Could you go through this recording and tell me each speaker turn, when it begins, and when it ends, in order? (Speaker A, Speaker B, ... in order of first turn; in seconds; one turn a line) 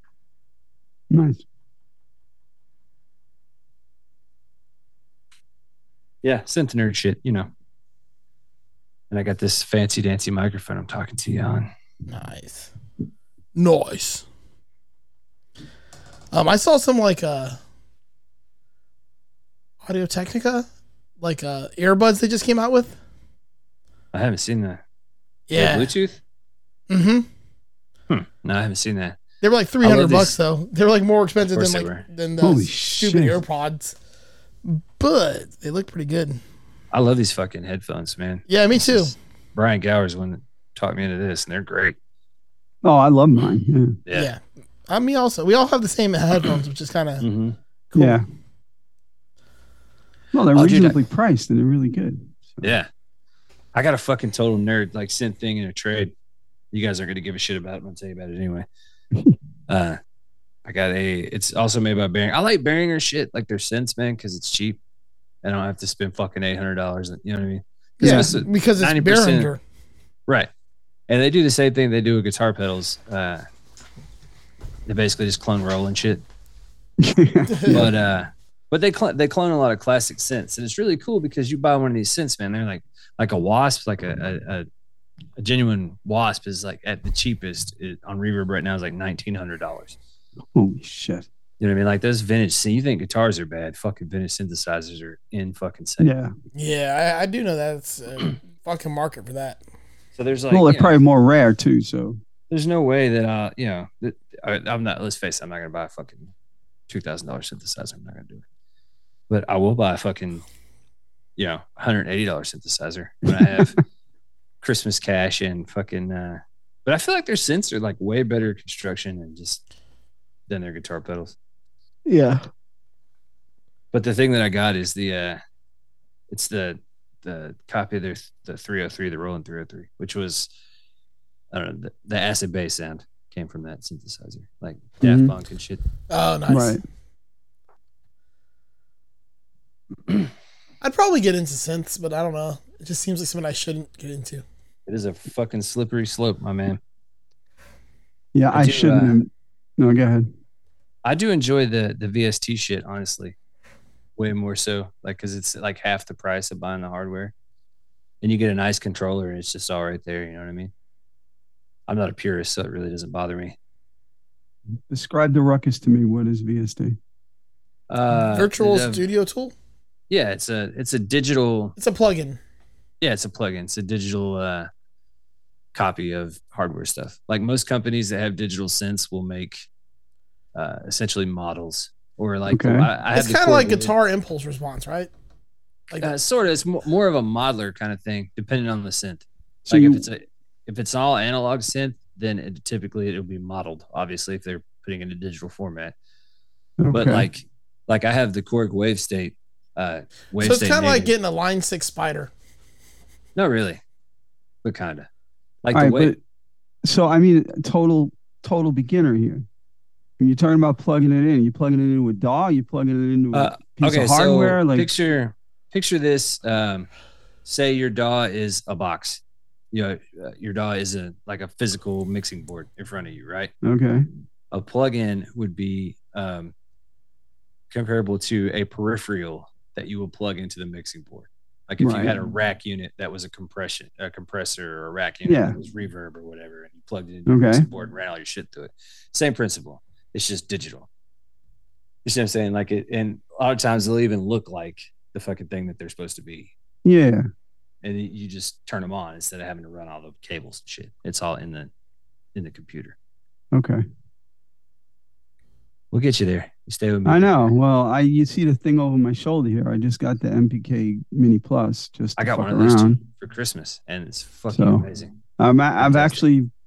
Speaker A: 1.1-1.4
Speaker B: 6.2-7.5
Speaker B: 9.1-11.7
Speaker C: 12.1-12.7
Speaker C: 13.6-14.2
Speaker C: 16.3-17.6
Speaker C: 19.8-20.6
Speaker C: 21.2-23.0
Speaker B: 24.1-24.8
Speaker C: 25.5-25.9
Speaker B: 25.5-26.2
Speaker C: 26.9-27.3
Speaker B: 28.1-29.2
Speaker C: 29.4-33.9
Speaker B: 29.8-30.3
Speaker B: 31.5-32.0
Speaker A: 32.4-33.4
Speaker C: 34.6-36.4
Speaker B: 36.9-42.0
Speaker C: 38.5-39.1
Speaker A: 42.8-43.9
Speaker C: 44.1-47.2
Speaker B: 47.2-47.5
Speaker C: 47.9-48.2
Speaker A: 47.9-48.2
Speaker A: 50.3-52.7
Speaker B: 50.5-51.0
Speaker B: 52.6-52.9
Speaker B: 53.7-56.1
Speaker B: 56.7-58.6
Speaker B: 59.7-60.0
Speaker B: 60.6-64.8
Speaker B: 65.4-69.5
Speaker C: 68.0-69.6
Speaker A: 68.0-68.3
Speaker B: 71.1-73.4
Speaker B: 74.9-76.2
Speaker A: 77.0-77.9
Speaker C: 77.5-77.8
Speaker B: 77.7-84.7
Speaker B: 85.4-90.0
Speaker A: 90.5-91.2
Speaker B: 91.6-96.1
Speaker A: 96.0-96.3
Speaker C: 96.5-99.6
Speaker B: 100.2-100.9
Speaker A: 100.5-102.2
Speaker B: 102.5-106.3
Speaker B: 106.9-108.4
Speaker B: 109.3-110.4
Speaker B: 111.4-113.8
Speaker B: 114.6-119.6
Speaker B: 120.5-121.3
Speaker C: 122.1-122.4
Speaker B: 123.9-125.4
Speaker B: 126.3-130.5
Speaker B: 131.5-135.8
Speaker A: 135.0-135.3
Speaker C: 136.1-136.8
Speaker A: 136.5-136.8
Speaker C: 140.8-144.4
Speaker B: 144.9-146.8
Speaker A: 148.3-150.3
Speaker B: 148.5-149.2
Speaker B: 151.0-153.3
Speaker B: 154.2-157.3
Speaker B: 158.2-160.7
Speaker B: 161.9-163.6
Speaker A: 164.9-167.0
Speaker B: 167.9-169.0
Speaker C: 168.2-169.5
Speaker B: 170.1-171.7
Speaker C: 171.8-172.4
Speaker B: 173.0-174.7
Speaker B: 175.7-179.7
Speaker B: 180.5-183.9
Speaker A: 182.5-182.9
Speaker C: 183.1-185.1
Speaker B: 186.0-195.9
Speaker A: 189.7-190.0
Speaker A: 196.8-197.3
Speaker B: 196.9-201.1
Speaker C: 200.4-202.3
Speaker B: 203.3-203.8
Speaker B: 204.6-205.1
Speaker B: 205.6-206.1
Speaker A: 205.7-206.2
Speaker A: 206.8-209.4
Speaker A: 210.2-214.9
Speaker B: 213.3-216.9
Speaker B: 217.4-219.2
Speaker B: 219.7-223.5
Speaker A: 223.6-224.1
Speaker B: 224.5-226.5
Speaker B: 227.7-240.9
Speaker A: 231.8-232.1
Speaker A: 235.2-235.6
Speaker A: 237.3-237.7
Speaker B: 242.0-246.5
Speaker A: 246.8-247.3
Speaker B: 247.8-251.7
Speaker B: 252.3-252.9
Speaker A: 253.5-253.8
Speaker B: 255.9-257.5
Speaker A: 257.0-263.0
Speaker B: 262.2-265.1
Speaker A: 264.5-264.8
Speaker A: 265.4-266.5
Speaker B: 265.8-266.2